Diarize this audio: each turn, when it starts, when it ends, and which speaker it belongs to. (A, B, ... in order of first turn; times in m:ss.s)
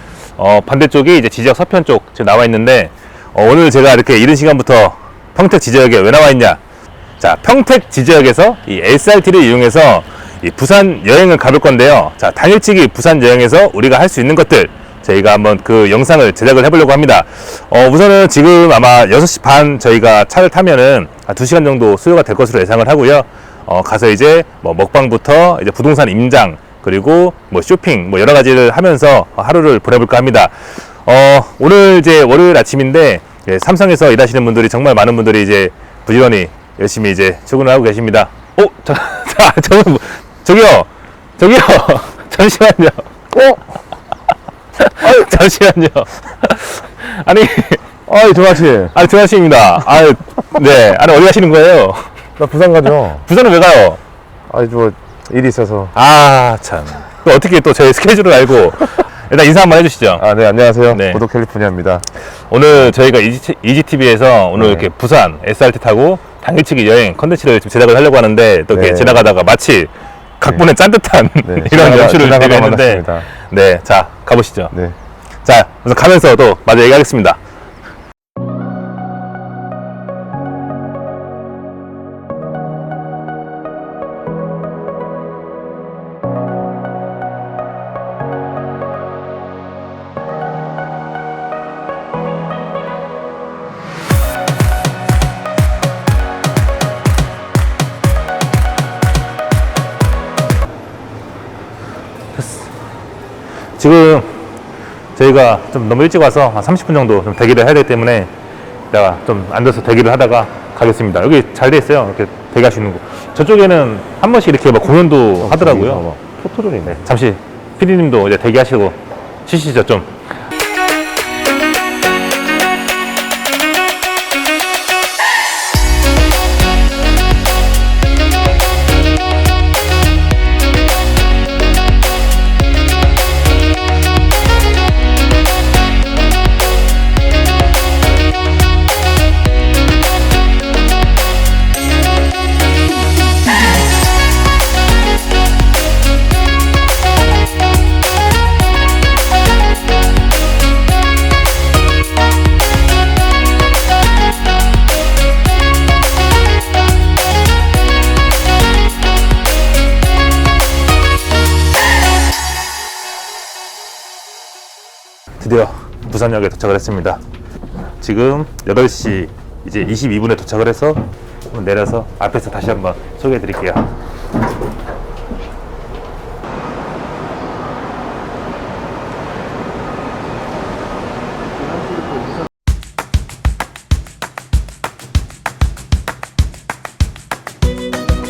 0:00.4-0:06.6 A
0:07.2-0:43.0 A
0:43.3-0:43.6 B
0:44.8-0:47.8 A
0:48.0-0:48.9 B
0:48.9-0:52.1 A
0:52.4-0:53.2 B
0:53.2-0:54.0 A
0:54.5-0:55.9 B
0:55.9-1:00.2 A
1:00.2-1:02.0 B
1:00.9-1:01.2 A
1:02.5-1:14.7 A
1:04.6-1:04.9 B
1:08.7-1:09.3 B
1:11.4-1:13.2 B
1:15.4-1:17.4 A
1:42.3-1:42.7 A
1:43.8-1:44.4 A
1:45.2-1:48.3 A
1:48.9-1:56.0 A
1:55.4-1:57.0 B
1:56.8-2:00.1 A
2:45.4-2:47.2 A
2:48.0-2:51.0 A
2:51.5-2:53.9 A